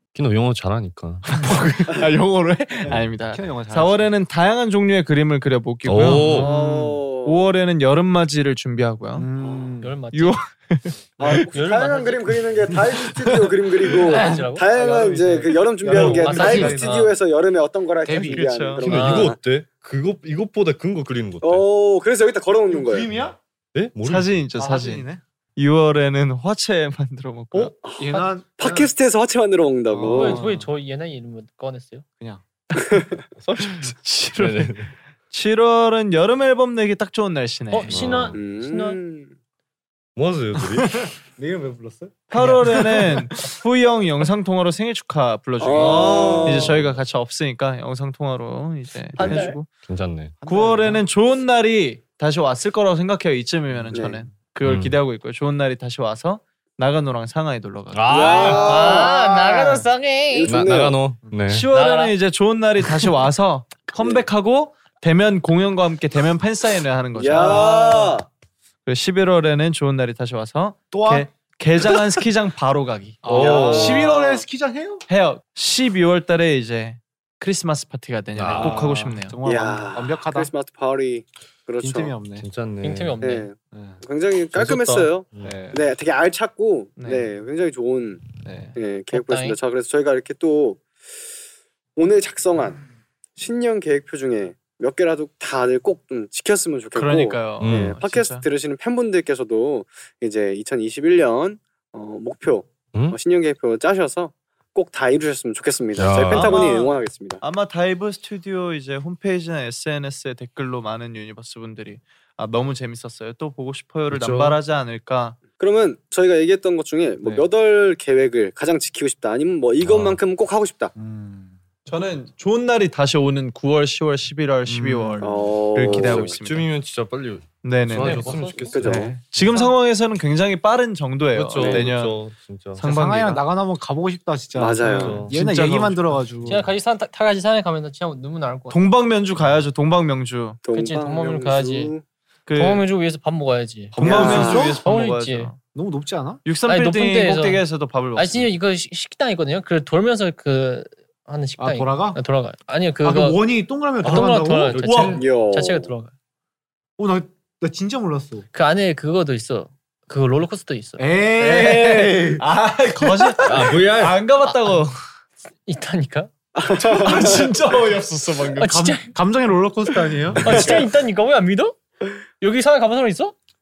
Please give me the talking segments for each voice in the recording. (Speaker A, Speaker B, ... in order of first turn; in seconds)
Speaker A: 0.1-1.4, 5.8-6.5, 18.8-21.6, 23.7-24.5, 33.4-34.9, 37.9-38.4, 40.2-41.1, 45.7-46.9, 49.9-50.4, 54.6-55.0, 57.9-58.9, 60.5-61.7, 73.2-74.2, 78.3-78.8, 82.4-83.2, 84.5-85.5, 97.6-97.9, 106.0-106.6, 114.1-114.6, 119.8-120.2, 125.8-129.7, 131.3-132.8, 134.8-135.3, 154.7-155.2, 163.4-164.2
Speaker B: 1.3-9.3, 10.1-11.5, 18.2-19.0, 24.0-27.8, 33.7-34.7, 35.3-38.0, 42.3-49.7, 50.5-58.7, 61.5-68.2, 68.9-73.4, 75.1-79.4, 87.0-87.3, 96.9-98.5, 106.3-115.4, 121.9-126.7, 127.6-132.2, 132.8-133.4, 134.9-136.2, 138.7-140.6, 142.5-142.8, 143.9-145.6, 146.4-148.5, 154.8-155.2, 161.4-164.9, 166.8-168.7
Speaker C: 2.9-4.1, 6.2-6.5, 9.2-9.9, 12.9-14.4, 15.4-17.1, 18.1-18.6, 22.7-23.4, 24.6-25.2, 27.5-28.9, 29.9-30.7, 41.0-43.5, 50.4-51.0, 53.7-54.1, 67.4-67.6, 70.9-71.3, 73.2-75.0, 78.5-80.5, 81.8-82.5, 83.7-84.0, 85.4-85.8, 88.4-88.7, 121.0-121.5, 124.7-125.3, 132.8-136.7, 144.0-144.8, 145.7-146.4, 151.6-152.2, 153.0-154.9, 157.0-158.5, 161.0-162.4, 168.6-170.8
Speaker D: 6.3-7.5, 11.2-19.4, 21.4-23.1, 27.8-30.4, 32.8-33.2, 38.3-39.3, 45.6-46.8, 49.2-49.6, 53.9-54.2, 58.1-61.0, 63.9-64.2, 67.2-68.3, 73.3-74.4, 79.4-82.2, 83.2-90.8, 92.0-92.8, 93.4-107.4, 115.6-120.9, 125.2-126.4, 128.7-129.2, 134.5-135.3, 140.6-142.0, 144.1-144.8, 155.1-155.9, 166.6-167.5, 170.4-170.9
Speaker E: 9.8-10.4, 11.3-12.4, 14.0-17.1, 30.0-32.0, 37.7-39.0, 49.2-49.6, 58.6-60.5, 61.7-62.1, 82.8-83.5, 89.1-89.6, 128.0-128.9, 136.5-138.9, 140.7-141.9, 142.6-145.5, 146.7-147.6, 148.2-153.4, 154.0-156.1, 158.5-161.8, 165.7-166.3, 168.6-169.1, 170.4-171.8, 172.4-173.3